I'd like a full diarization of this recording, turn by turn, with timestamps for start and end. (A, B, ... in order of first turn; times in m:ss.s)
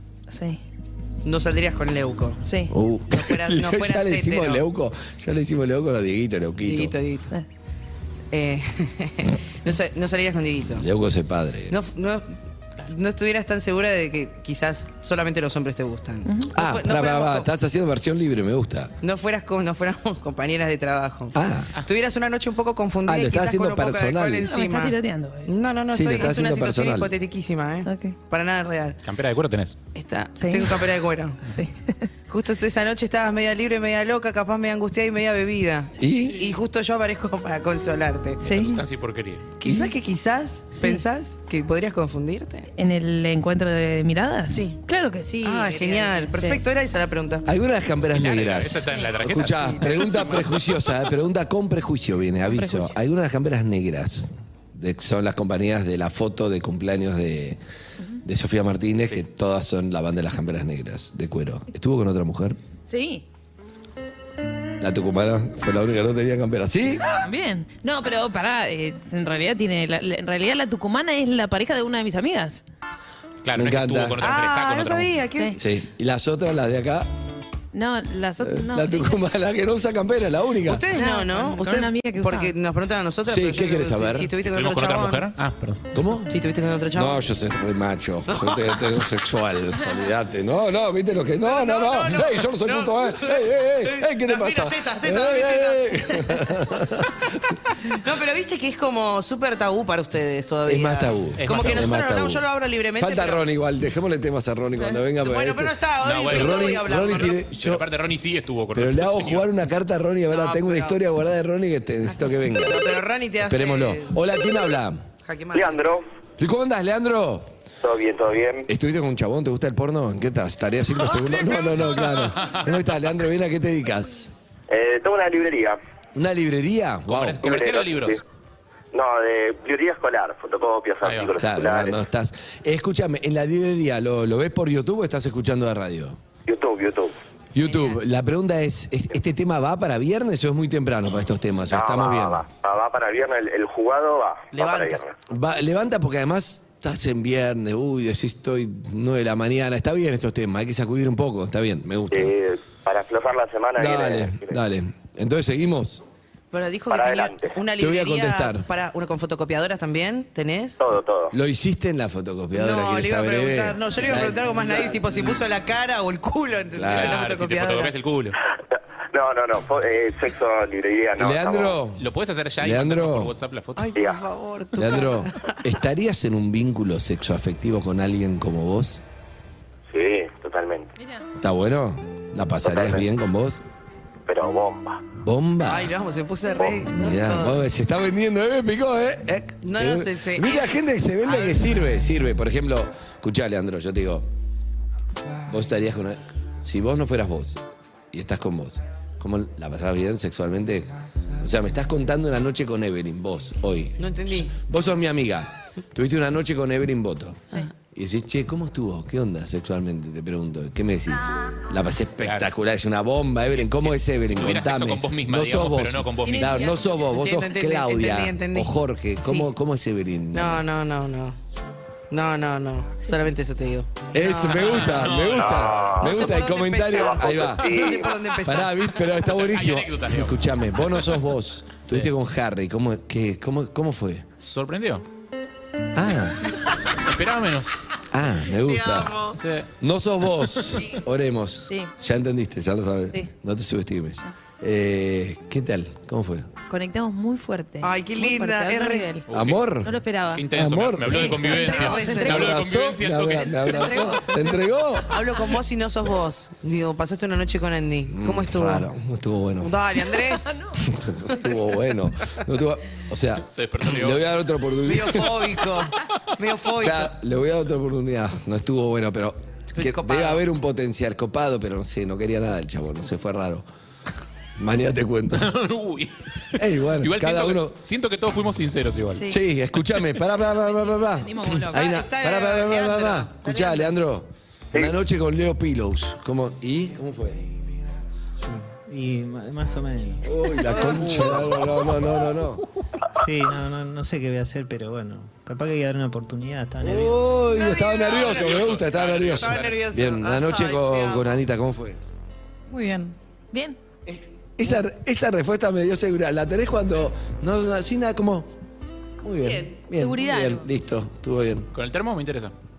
0:00.3-0:00.6 A
0:01.2-0:02.4 B
0:02.4-0:02.7 A
0:02.7-0:06.9 C
0:03.1-0:04.6 B
0:06.6-0:07.3 B
0:08.3-0:10.8 B
0:10.8-0:11.8 C
0:11.7-0:17.5 B
0:16.3-0:16.5 A
0:16.5-0:18.9 C
0:19.0-0:29.0 B
0:21.3-0:21.7 C
0:23.0-0:24.5 C
0:24.5-0:25.5 A
0:25.9-0:27.1 C
0:27.9-0:28.2 A
0:29.0-0:29.8 D
0:30.0-0:31.4 B
0:30.4-0:30.8 A
0:31.5-0:32.1 A
0:32.3-0:38.4 B
0:36.0-0:36.4 C
0:38.4-0:38.8 A
0:38.4-0:39.4 D
0:39.6-0:42.7 B
0:39.6-0:39.9 C
0:40.8-0:41.0 A
0:42.8-0:46.6 A
0:44.5-0:44.8 B
0:45.4-0:47.5 B
0:47.5-0:57.6 C
0:48.1-0:50.4 D
0:49.8-0:50.5 B
0:52.5-0:53.0 A
0:58.2-1:02.6 C
1:02.9-1:03.2 A
1:04.8-1:07.1 C
1:07.2-1:12.6 A
1:13.4-1:15.2 D
1:13.6-1:14.2 C
1:14.2-1:15.6 B
1:15.6-1:17.1 C
1:17.7-1:19.2 A
1:18.4-1:20.8 C
1:20.6-1:25.3 B
1:21.0-1:22.5 A
1:23.3-1:24.3 C
1:24.4-1:25.8 D
1:25.9-1:26.4 C
1:26.3-1:27.2 B
1:26.9-1:37.6 C
1:28.3-1:29.0 B
1:31.4-1:36.1 B
1:37.9-1:43.4 B
1:40.7-1:42.4 C
1:41.4-1:41.9 D
1:43.0-1:45.7 C
1:45.2-1:47.4 B
1:46.0-1:46.9 D
1:46.3-1:47.8 C
1:47.5-1:49.5 D
1:48.7-1:52.9 C
1:50.3-1:51.0 B
1:52.1-1:54.2 B
1:53.4-1:55.1 C
1:55.2-1:55.8 B
1:55.5-1:56.1 E
1:56.4-1:57.5 C
1:57.8-1:58.7 E
1:58.7-2:04.3 C
2:04.7-2:05.8 E
2:06.2-2:07.4 C
2:07.1-2:08.2 D
2:07.4-2:08.2 E
2:08.9-2:12.0 E
2:11.0-2:11.4 D
2:11.4-2:16.2 C
2:16.5-2:17.1 E
2:17.5-2:22.4 C
2:21.7-2:25.1 E
2:24.5-2:25.0 B
2:25.3-2:32.3 C
2:32.1-2:34.6 E
2:33.8-2:36.0 C
2:36.5-2:40.8 B
2:36.9-2:37.6 E
2:37.8-2:38.7 C
2:40.8-2:41.3 E
2:41.3-2:45.4 C
2:42.5-2:47.9 B
2:46.7-2:47.2 C
2:46.9-2:48.4 D
2:49.1-2:51.8 E
2:51.2-2:52.0 C
2:52.0-2:53.9 D
2:52.6-2:53.3 C
2:53.8-2:55.6 B
2:54.0-2:54.2 E
2:54.8-2:59.0 C
2:59.9-3:00.9 E
3:01.0-3:01.2 A
3:01.4-3:03.6 C
3:02.6-3:03.0 E
3:04.3-3:05.0 E
3:05.2-3:05.9 C
3:05.6-3:07.6 B
3:06.6-3:14.3 C
3:09.6-3:11.6 B
3:15.5-3:40.7 C
3:24.0-3:24.6 B
3:32.2-3:32.5 D
3:33.5-3:36.7 D
3:36.2-3:37.0 A
3:37.1-3:39.5 B
3:40.3-3:41.4 B
3:42.1-3:45.1 B
3:44.1-3:54.3 C
3:44.5-3:45.9 D
3:45.3-3:46.3 E
3:46.0-3:48.8 B
3:46.9-3:48.1 E
3:49.2-3:51.2 D
3:54.4-3:55.0 D
3:55.9-3:56.6 C
3:57.0-3:57.7 D
3:58.1-3:59.2 C
3:58.6-3:59.4 B
3:59.4-3:59.7 D
3:59.8-4:06.5 C
4:06.7-4:09.3 A
4:07.8-4:09.1 B
4:09.3-4:09.6 D
4:09.3-4:10.0 C
4:09.8-4:10.4 A
4:10.3-4:13.9 D
4:10.5-4:15.2 C
4:11.1-4:12.2 A
4:11.4-4:12.6 B
4:13.7-4:14.4 A
4:15.1-4:18.9 B
4:18.1-4:19.8 C
4:19.6-4:20.6 B
4:20.4-4:20.8 A
4:20.8-4:25.5 C
4:23.5-4:24.3 D
4:24.8-4:27.1 B
4:26.8-4:33.7 C
4:29.8-4:30.4 B
4:34.6-4:35.5 C
4:35.3-4:39.3 D
4:36.6-4:37.8 C
4:39.1-4:39.4 A
4:39.3-4:47.5 C
4:40.8-4:42.0 A
4:41.7-4:43.9 B
4:48.4-4:51.8 F
4:50.2-4:52.6 C
4:50.7-4:51.2 B
4:53.2-4:57.3 F
4:56.8-5:02.0 C
4:57.5-4:58.7 B
4:58.1-4:59.8 D
4:59.3-5:01.4 B
5:02.7-5:03.8 A
5:04.1-5:08.5 C
5:09.2-5:11.7 C
5:10.0-5:10.7 A
5:11.7-5:12.5 D